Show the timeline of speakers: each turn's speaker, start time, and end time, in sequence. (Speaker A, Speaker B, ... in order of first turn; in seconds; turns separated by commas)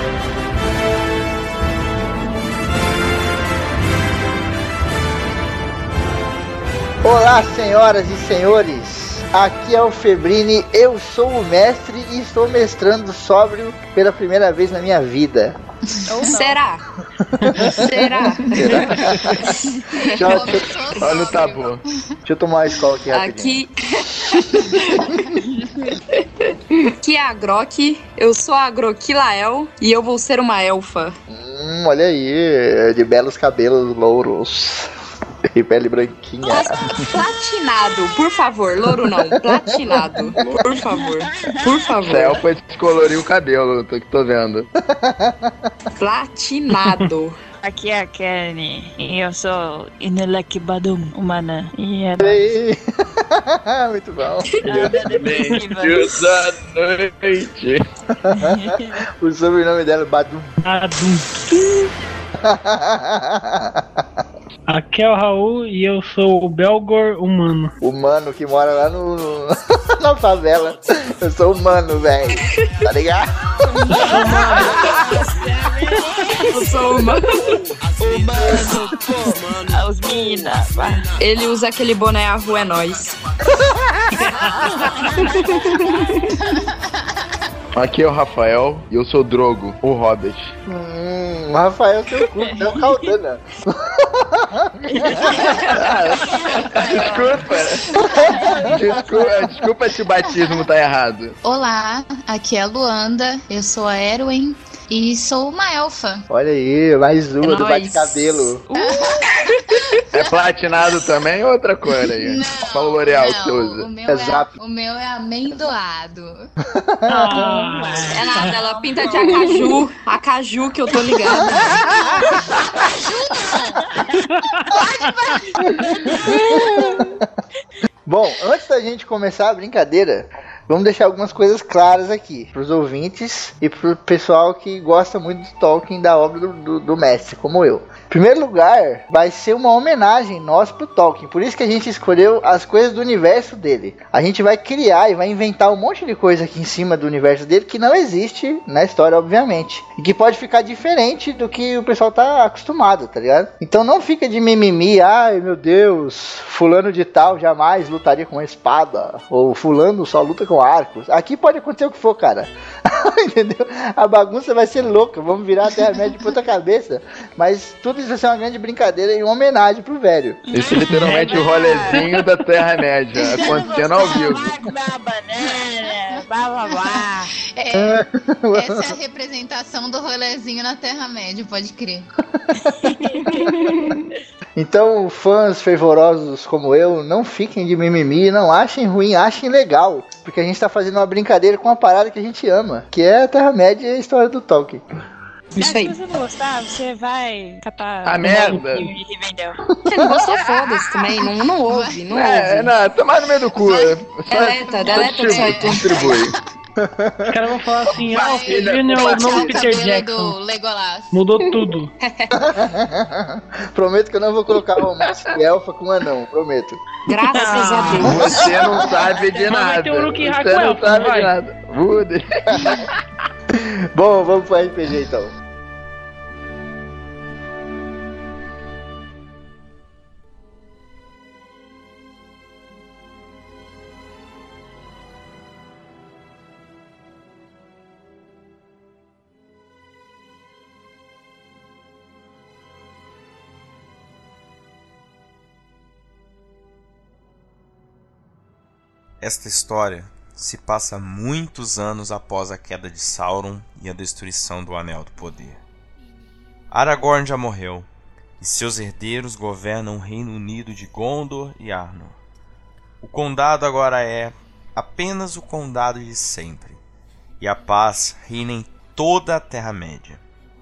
Speaker A: 7.0-15.6, Speaker B: 16.1-16.6, Speaker C: 16.2-16.8, Speaker A: 17.2-19.5, Speaker D: 17.4-17.7, Speaker C: 17.7-19.2, Speaker E: 19.9-21.9, Speaker A: 20.2-20.7, Speaker F: 21.0-21.8, Speaker A: 22.2-23.6, Speaker C: 23.1-25.1, Speaker A: 24.2-24.8, Speaker C: 26.4-31.2, Speaker A: 31.3-34.9, Speaker A: 35.5-37.0, Speaker C: 36.4-42.4, Speaker A: 39.5-39.9, Speaker B: 41.4-41.8, Speaker F: 42.0-44.7, Speaker A: 44.8-45.7, Speaker C: 46.0-47.4, Speaker B: 47.6-52.4, Speaker A: 52.2-54.5, Speaker B: 54.6-56.2, Speaker F: 54.6-57.8, Speaker A: 58.2-60.6, Speaker B: 58.3-59.0, Speaker D: 60.6-61.7, Speaker A: 62.4-64.0, Speaker D: 64.7-67.7, Speaker A: 67.8-73.9, Speaker B: 73.7-77.0, Speaker C: 73.9-75.3, Speaker C: 76.4-77.5, Speaker B: 78.0-81.1, Speaker C: 81.2-83.2, Speaker B: 84.6-85.8, Speaker C: 85.5-86.0, Speaker F: 87.7-90.5, Speaker A: 90.6-95.3, Speaker B: 92.4-92.9, Speaker B: 94.9-99.4, Speaker F: 95.7-98.1, Speaker A: 98.0-99.0, Speaker F: 98.7-101.3, Speaker E: 101.4-106.2, Speaker A: 106.3-108.6, Speaker C: 107.4-108.4, Speaker B: 108.7-109.3, Speaker E: 108.9-109.1, Speaker F: 110.1-113.9, Speaker E: 112.2-116.5, Speaker A: 114.1-114.5, Speaker A: 116.7-117.6, Speaker D: 117.1-118.5, Speaker B: 117.3-119.8, Speaker C: 118.0-121.9, Speaker B: 121.3-121.6, Speaker E: 122.8-123.9, Speaker B: 123.5-124.3, Speaker E: 124.7-125.7, Speaker B: 125.8-126.7, Speaker C: 126.3-127.0, Speaker A: 128.1-170.4, Speaker B: 170.5-172.1, Speaker F: 170.5-174.6, Speaker D: 170.9-172.0, Speaker B: 173.1-177.3, Speaker E: 173.4-174.3, Speaker E: 177.5-182.1, Speaker A: 177.7-178.9, Speaker B: 182.7-183.9, Speaker A: 184.6-194.8, Speaker C: 195.6-196.0, Speaker B: 195.6-199.6, Speaker F: 198.1-198.9, Speaker D: 198.3-198.9, Speaker C: 199.9-202.7, Speaker E: 201.7-202.0, Speaker F: 202.1-206.3, Speaker E: 203.5-204.0, Speaker C: 204.3-206.3, Speaker E: 204.7-206.2, Speaker A: 206.8-207.3, Speaker D: 207.3-210.4, Speaker F: 207.8-209.7, Speaker E: 208.1-211.1, Speaker D: 211.1-211.9, Speaker F: 211.4-211.7, Speaker C: 212.0-212.4, Speaker A: 212.5-216.8, Speaker F: 215.0-215.3, Speaker C: 217.1-218.5, Speaker D: 217.2-218.2, Speaker B: 217.6-218.1, Speaker F: 218.0-222.8, Speaker D: 219.4-221.3, Speaker A: 222.5-222.8, Speaker A: 223.6-225.3, Speaker G: 249.2-255.6, Speaker G: 256.7-257.9, Speaker G: 258.4-262.2, Speaker G: 263.0-266.8, Speaker G: 267.4-270.2